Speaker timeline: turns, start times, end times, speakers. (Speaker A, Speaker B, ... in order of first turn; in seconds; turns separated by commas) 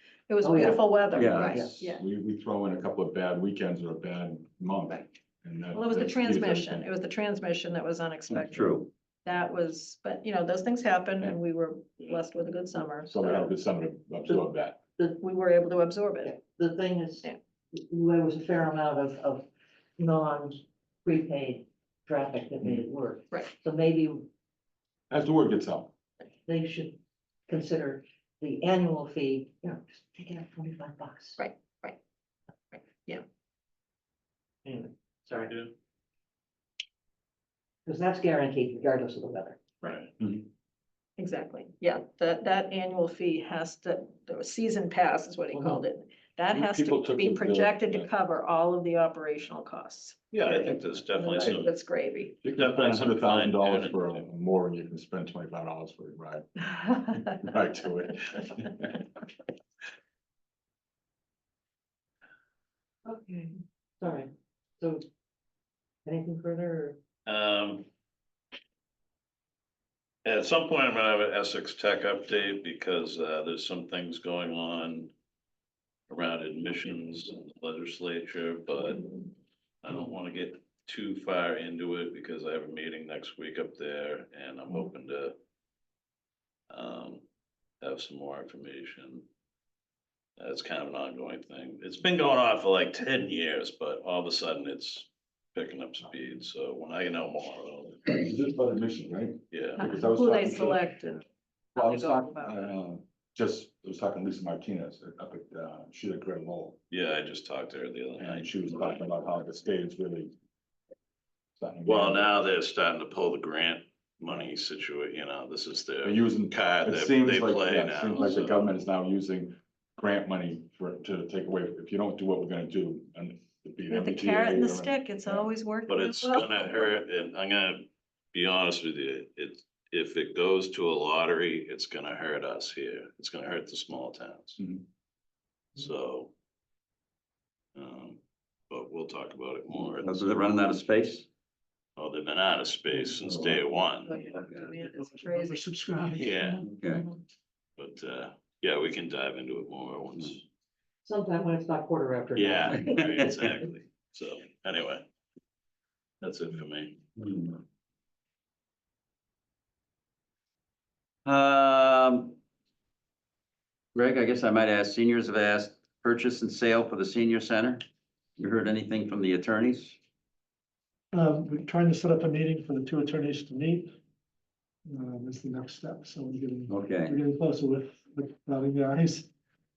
Speaker A: 0.3-2.0, Speaker B: 0.4-0.9, Speaker C: 1.1-1.8, Speaker D: 1.3-6.9, Speaker B: 1.4-1.7, Speaker A: 5.7-13.2, Speaker C: 8.4-8.9, Speaker D: 13.1-14.8, Speaker A: 15.2-16.3, Speaker B: 16.2-19.5, Speaker B: 20.0-24.3, Speaker D: 25.1-25.9, Speaker B: 26.5-31.4, Speaker A: 31.4-32.0, Speaker A: 32.7-33.2, Speaker B: 34.6-35.6, Speaker B: 37.9-39.6, Speaker E: 39.8-40.1, Speaker D: 40.2-40.5, Speaker A: 41.2-52.4, Speaker B: 45.5-45.8, Speaker D: 46.5-48.1, Speaker E: 50.3-51.7, Speaker D: 51.4-51.7, Speaker D: 52.4-59.1, Speaker E: 52.5-54.2, Speaker B: 63.1-65.0, Speaker B: 66.0-67.0, Speaker E: 67.3-67.9, Speaker E: 70.2-75.1, Speaker E: 76.1-79.1, Speaker E: 79.8-85.4, Speaker E: 86.7-87.2, Speaker E: 87.8-89.2, Speaker E: 90.4-98.2, Speaker D: 98.2-100.9, Speaker E: 99.5-99.8, Speaker A: 99.8-101.2, Speaker A: 101.8-102.6, Speaker D: 101.8-106.8, Speaker E: 106.9-109.0, Speaker D: 108.2-110.3, Speaker D: 111.6-112.3, Speaker E: 111.8-118.7, Speaker D: 116.0-125.5, Speaker A: 123.9-126.6, Speaker E: 125.9-134.6, Speaker E: 135.8-136.3, Speaker E: 137.8-140.4, Speaker C: 140.0-141.3, Speaker E: 142.0-144.2, Speaker A: 144.0-145.6, Speaker F: 144.9-146.8, Speaker E: 146.1-146.7, Speaker C: 146.8-147.1, Speaker E: 147.8-150.5, Speaker B: 151.1-153.2, Speaker E: 152.4-155.1, Speaker E: 156.2-157.1, Speaker C: 161.2-162.4, Speaker C: 163.9-167.8, Speaker C: 168.4-170.0, Speaker F: 171.1-173.9, Speaker F: 174.9-179.3, Speaker C: 176.7-177.2